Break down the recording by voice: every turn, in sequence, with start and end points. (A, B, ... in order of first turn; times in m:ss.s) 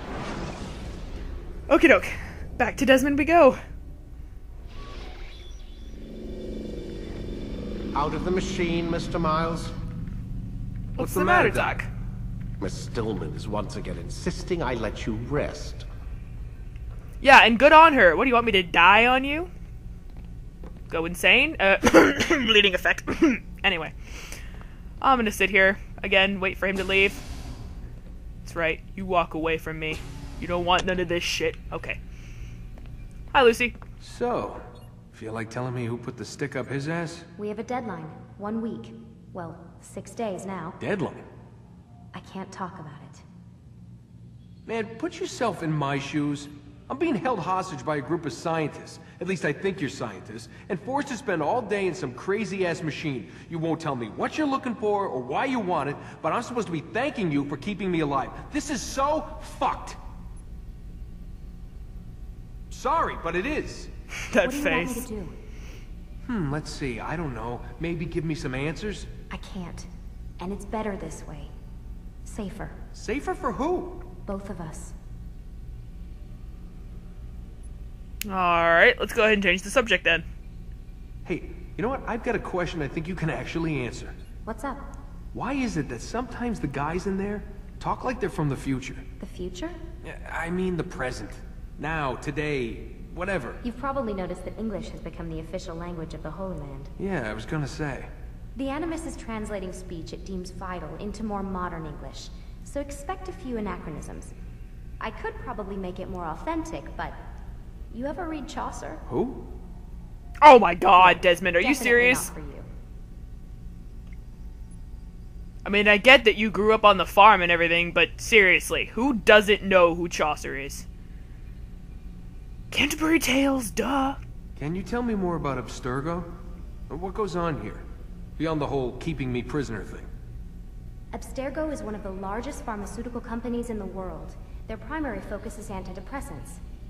0:01.7-0:03.6 A
0:07.9-0:09.7 B
0:11.0-0:11.8 C
0:11.0-0:11.9 A
0:12.6-0:15.8 B
0:17.2-0:19.5 A
0:20.9-0:24.4 A
0:25.0-0:27.2 A
0:28.4-0:32.0 A
0:33.3-0:33.8 A
0:34.0-0:37.3 C
0:37.4-0:40.8 D
0:40.8-0:41.2 C
0:42.1-0:43.2 D
0:44.6-1:00.0 C
1:02.7-1:03.9 C
1:04.3-1:05.0 A
1:04.4-1:05.3 D
1:06.2-1:09.1 C
1:09.3-1:09.9 D
1:10.4-1:11.5 D
1:12.2-1:12.8 D
1:12.9-1:14.1 C
1:14.2-1:14.9 D
1:18.2-1:20.2 A
1:21.2-1:24.1 C
1:24.4-1:24.8 D
1:25.3-1:29.0 C
1:29.2-1:29.8 D
1:30.0-1:33.6 C
1:33.6-1:36.9 D
1:37.0-1:38.1 C
1:38.6-1:44.3 D
1:45.0-1:47.2 D
1:47.9-1:49.0 D
1:49.1-1:49.4 C
1:50.4-1:52.3 A
1:51.0-1:52.7 D
1:55.6-2:00.9 A
2:02.7-2:04.2 A
2:04.6-2:06.3 C
2:06.9-2:07.8 C
2:08.4-2:10.1 C
2:11.1-2:16.6 D